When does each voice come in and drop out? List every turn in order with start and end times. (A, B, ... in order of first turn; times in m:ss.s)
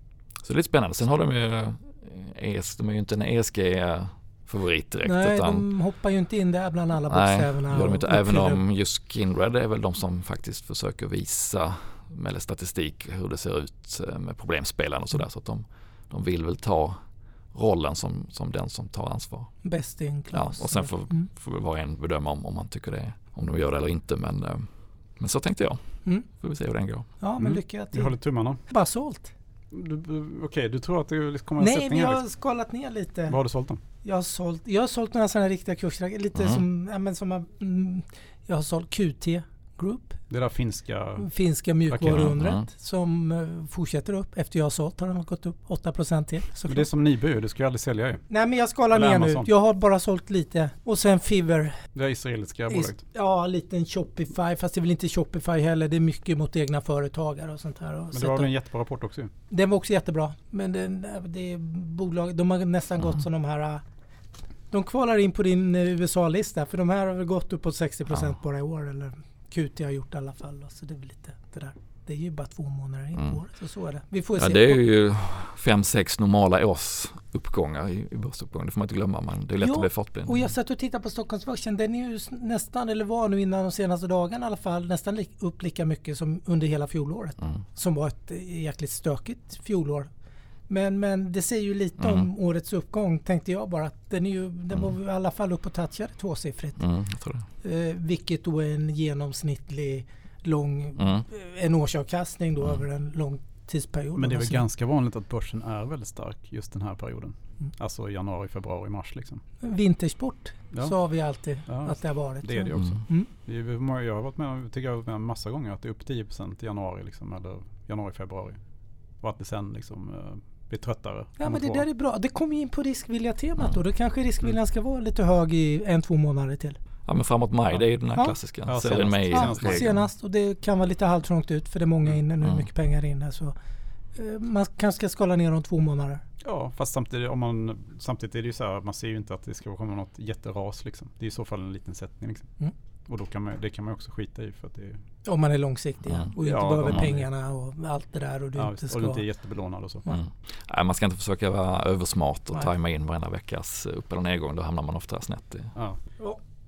0:00.4-0:05.6 A
0:05.0-0:08.6 B
0:07.1-0:17.0 A
0:17.5-0:19.5 A
0:19.6-0:21.3 B
0:20.3-0:27.1 A
0:27.2-0:29.3 B
0:27.4-0:28.6 C
0:29.7-0:32.2 C
0:31.6-0:33.4 B
0:33.3-0:33.8 C
0:34.0-0:40.2 B
0:36.4-0:36.6 A
0:40.3-0:41.3 C
0:41.2-0:46.9 B
0:41.9-0:42.3 C
0:42.1-0:42.7 A
0:46.7-0:48.2 C
0:48.3-0:51.8 B
0:48.9-0:49.5 C
0:52.0-0:53.0 C
0:52.7-0:58.5 B
0:58.1-0:59.3 C
0:59.5-1:03.8 B
1:04.7-1:14.8 B
1:14.4-1:20.5 A
1:19.6-1:30.1 B
1:30.7-1:36.9 B
1:32.0-1:32.3 A
1:36.8-1:37.5 A
1:37.6-1:44.6 B
1:41.0-1:41.2 A
1:44.2-1:49.4 C
1:49.6-1:53.3 B
1:51.7-1:58.6 C
1:52.7-1:53.0 A
1:59.2-2:01.9 C
2:01.4-2:06.8 B
2:07.1-2:10.0 A
2:08.2-2:13.6 B
2:08.7-2:10.0 C
2:12.4-2:12.7 A
2:14.2-2:16.2 B
2:16.4-2:22.5 C
2:23.1-2:25.0 C
2:25.2-2:29.2 B
2:26.4-2:27.3 C
2:28.6-2:30.1 C
2:30.1-2:35.7 A
2:35.8-2:36.1 C